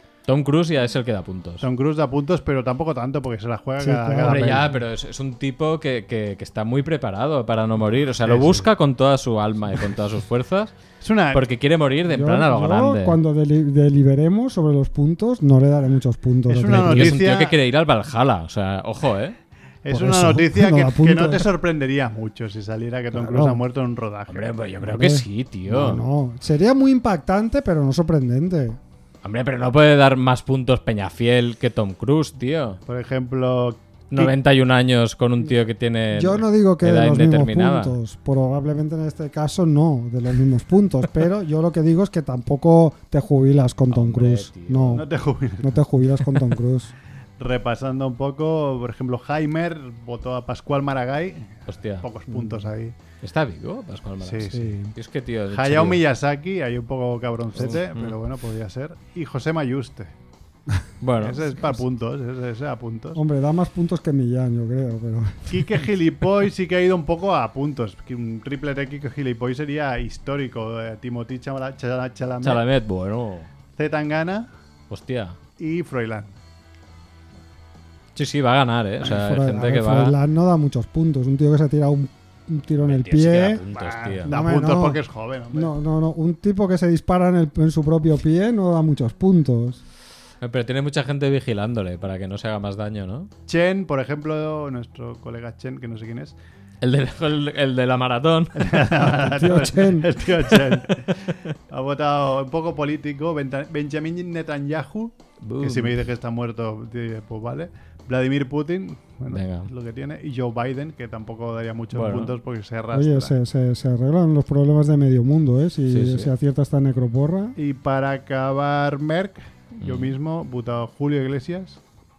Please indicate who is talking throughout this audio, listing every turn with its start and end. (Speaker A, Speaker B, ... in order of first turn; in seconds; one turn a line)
Speaker A: 0.2-1.7
Speaker B: 1.6-4.7
Speaker C: 3.8-4.7
Speaker A: 4.2-10.7
Speaker B: 8.2-8.7
Speaker B: 11.0-11.5
Speaker A: 11.3-13.2
Speaker C: 12.1-17.1
Speaker B: 16.5-17.6
Speaker A: 16.8-19.4
Speaker B: 19.8-24.5
Speaker C: 19.9-21.5
Speaker C: 23.1-23.6
Speaker A: 24.3-26.0
Speaker C: 24.8-28.8
Speaker A: 29.2-32.8
Speaker B: 32.9-34.3
Speaker A: 34.1-38.0
Speaker C: 36.1-45.1
Speaker A: 43.9-45.0
Speaker B: 44.9-45.8
Speaker C: 45.6-46.9
Speaker B: 47.4-52.9
Speaker A: 51.7-52.1
Speaker C: 52.3-52.7
Speaker A: 53.2-56.0
Speaker B: 54.2-54.6
Speaker C: 54.5-54.9
Speaker B: 55.5-60.1
Speaker A: 57.5-58.1
Speaker A: 61.0-61.4
Speaker B: 61.2-63.2
Speaker C: 63.1-65.8
Speaker B: 65.5-72.6
Speaker A: 72.4-73.5
Speaker B: 73.7-74.5
Speaker A: 74.9-75.4
Speaker B: 75.6-76.3
Speaker A: 78.1-80.2
Speaker C: 79.0-83.6
Speaker A: 82.8-84.3
Speaker B: 83.7-85.7
Speaker C: 84.2-85.0
Speaker C: 85.5-89.8
Speaker A: 90.4-93.3
Speaker B: 93.5-96.3
Speaker A: 96.8-98.6
Speaker B: 98.5-113.3
Speaker C: 98.9-100.1
Speaker A: 100.7-101.5
Speaker A: 105.4-106.0
Speaker A: 109.3-109.7
Speaker A: 111.9-112.3
Speaker C: 112.9-117.5
Speaker A: 115.9-116.3
Speaker B: 117.5-121.8
Speaker A: 119.8-120.1